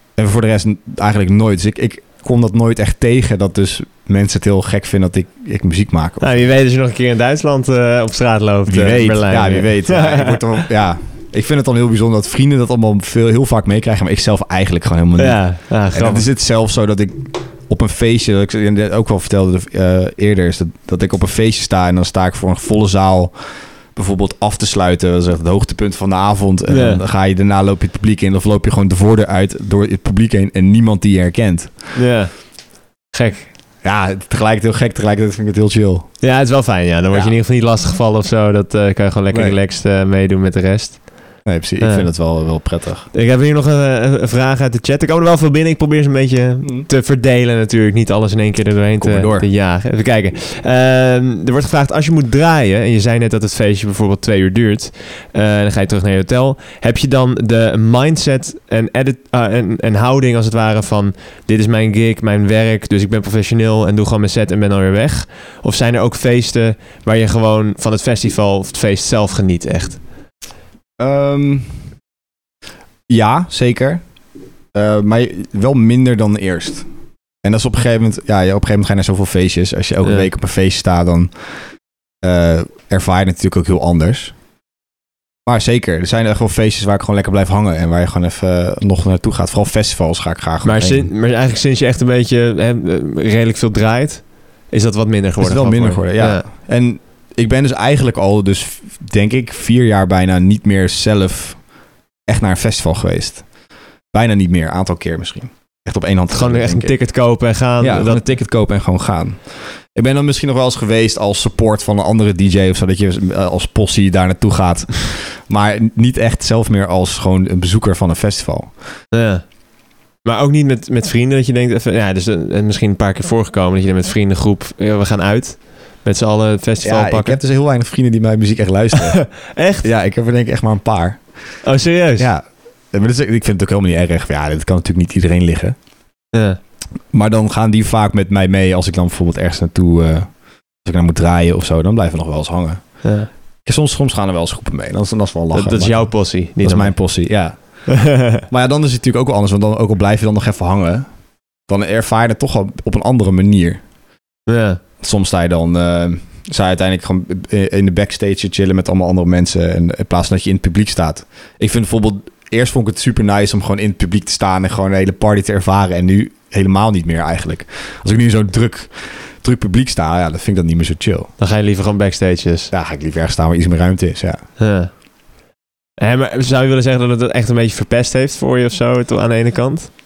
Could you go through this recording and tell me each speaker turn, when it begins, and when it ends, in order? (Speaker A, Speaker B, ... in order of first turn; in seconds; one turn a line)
Speaker A: 0.2-6.5
Speaker B: 6.2-10.4
Speaker A: 8.7-31.9
Speaker B: 15.2-16.3
Speaker B: 26.7-27.0
Speaker B: 31.9-33.5
Speaker A: 33.8-36.4
Speaker B: 36.2-70.0
Speaker A: 39.3-39.6
Speaker A: 41.4-43.1
Speaker A: 46.6-46.9
Speaker A: 49.0-49.5
Speaker A: 71.0-71.8
Speaker A: 73.1-74.1
Speaker A: 74.7-76.8
Speaker A: 77.4-81.6
Speaker A: 82.2-84.4
Speaker A: 85.5-91.1
Speaker B: 90.6-96.5
Speaker A: 95.4-101.7
Speaker A: 102.3-107.1
Speaker B: 106.3-108.2
Speaker A: 107.8-118.8
Speaker B: 119.1-127.4
Speaker A: 126.8-131.7
Speaker B: 129.2-129.9
Speaker B: 131.6-132.3
Speaker A: 132.2-135.8
Speaker B: 136.3-136.6
Speaker A: 137.1-151.1
Speaker B: 143.0-143.3
Speaker B: 145.5-148.4
Speaker A: 151.7-153.8
Speaker B: 154.5-154.8
Speaker A: 155.0-171.3
Speaker B: 171.4-172.7
Speaker A: 172.7-174.5
Speaker B: 174.6-175.0
Speaker B: 176.0-179.9